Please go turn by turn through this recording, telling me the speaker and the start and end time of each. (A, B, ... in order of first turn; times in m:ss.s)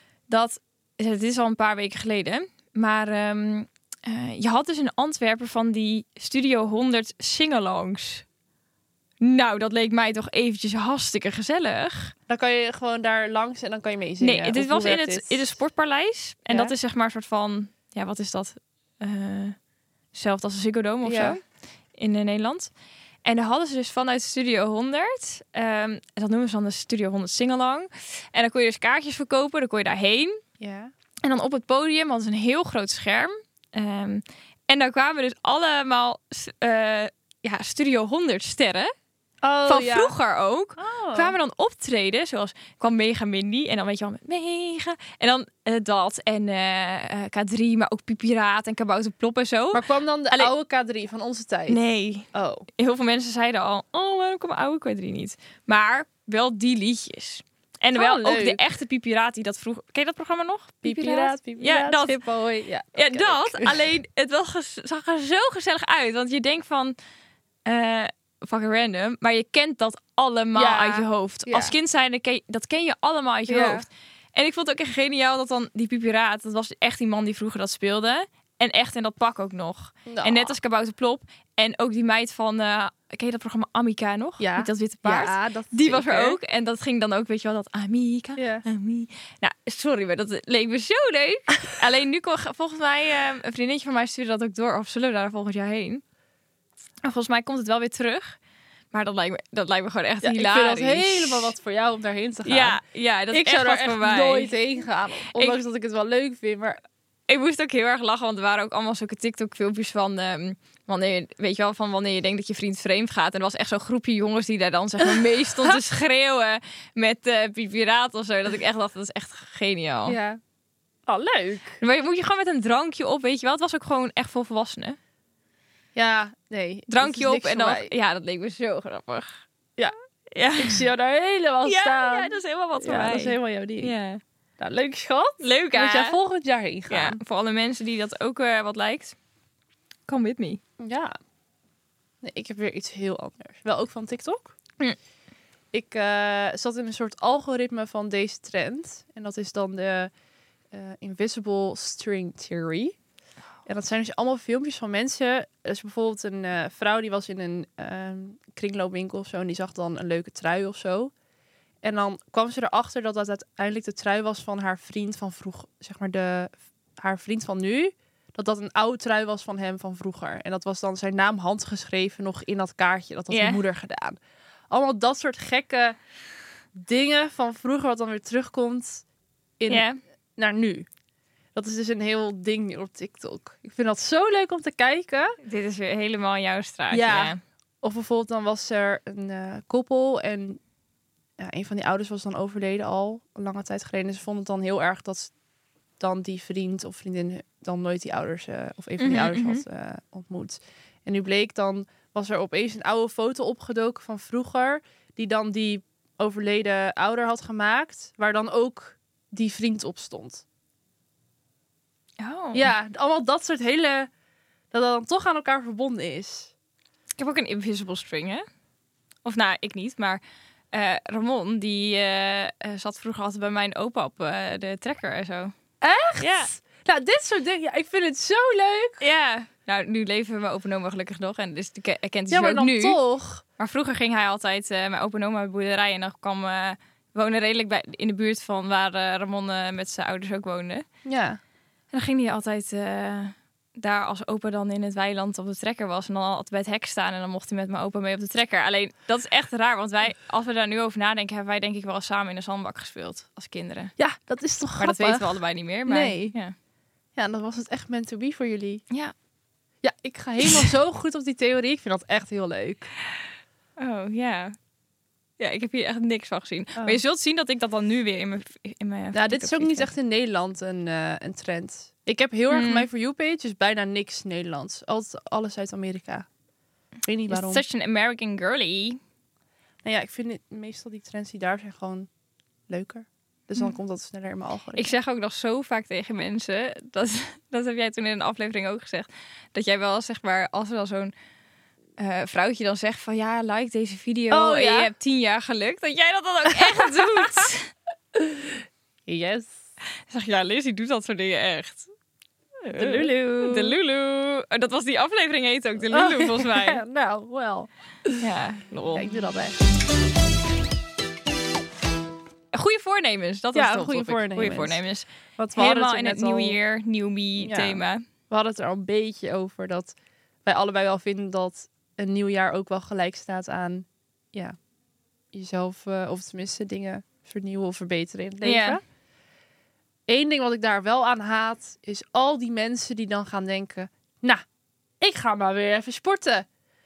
0:00.3-0:08.2 A
0:09.2-0:12.1 A
0:12.3-0:15.5 B
0:14.2-0:19.6 A
0:20.1-0:21.4 A
0:21.0-0:21.4 B
0:22.0-0:22.7 A
0:23.2-0:30.4 A
0:30.6-0:30.9 B
0:31.2-0:38.9 A
0:39.4-0:40.1 B
0:39.6-0:50.5 A
0:40.8-0:41.4 B
0:49.7-0:51.8 B
0:51.7-1:02.2 A
0:52.3-0:52.6 B
0:57.9-0:58.6 B
1:00.8-1:03.7 B
1:02.9-1:07.0 A
1:07.6-1:36.0 A
1:10.5-1:11.7 B
1:13.5-1:13.8 B
1:20.0-1:20.5 B
1:24.4-1:26.4 B
1:28.4-1:28.6 B
1:37.0-1:38.4 A
1:38.9-1:41.5 A
1:40.2-1:42.8 B
1:42.4-1:44.5 A
1:43.3-1:46.8 B
1:45.3-1:45.6 A
1:47.3-2:00.2 A
2:00.0-2:00.4 B
2:01.1-2:01.8 B
2:01.8-2:05.0 A
2:05.9-2:07.9 B
2:06.9-2:09.4 A
2:10.3-2:10.8 A
2:10.6-2:13.9 B
2:11.6-2:14.2 A
2:14.6-2:17.2 B
2:15.4-2:16.2 A
2:16.9-2:19.2 A
2:20.1-2:20.6 A
2:20.8-2:21.2 B
2:22.2-2:24.5 B
2:25.7-2:30.1 B
2:30.7-2:33.0 B
2:33.6-2:41.1 B
2:41.8-2:54.2 B
2:53.3-2:53.6 A
2:54.7-2:56.0 B
2:56.7-2:59.0 B
2:59.6-3:00.9 B
2:59.7-3:00.0 A
3:01.5-3:05.4 B
3:05.4-3:07.4 A
3:06.9-3:10.6 B
3:11.4-3:15.3 B
3:16.0-3:30.4 B
3:19.0-3:19.6 A
3:32.2-3:32.7 A
3:32.5-3:34.1 B
3:34.7-3:36.5 B
3:37.2-3:38.4 A
3:39.2-3:40.2 A
3:40.7-3:45.5 A
3:45.8-3:49.0 B
3:46.2-3:46.5 A
3:49.0-3:53.0 A
3:52.3-3:53.4 B
3:53.6-4:00.8 A
4:01.0-4:01.4 B
4:01.9-4:13.9 A
4:14.0-4:16.4 B
4:14.8-4:16.5 A
4:17.2-4:18.8 B
4:19.8-4:22.9 B
4:23.8-4:24.5 A
4:25.4-4:29.9 A
4:29.1-4:36.3 B
4:32.5-4:32.9 A
4:37.0-4:37.6 B
4:37.3-4:39.0 A
4:39.8-4:42.1 B
4:42.7-4:44.9 B
4:44.7-4:51.1 A
4:52.0-4:57.7 A
4:54.3-4:54.9 B
4:56.5-4:57.5 B
4:58.1-4:59.6 B
5:00.1-5:01.9 A
5:02.6-5:06.8 A
5:02.8-5:03.8 B
5:05.9-5:08.2 B
5:08.2-5:09.1 A
5:08.9-5:09.6 B
5:12.5-5:18.0 A
5:13.5-5:14.8 B
5:15.4-5:16.6 B
5:17.4-5:24.6 B
5:25.3-5:28.8 B
5:28.4-5:28.8 A
5:30.1-5:34.4 B
5:35.0-5:36.4 B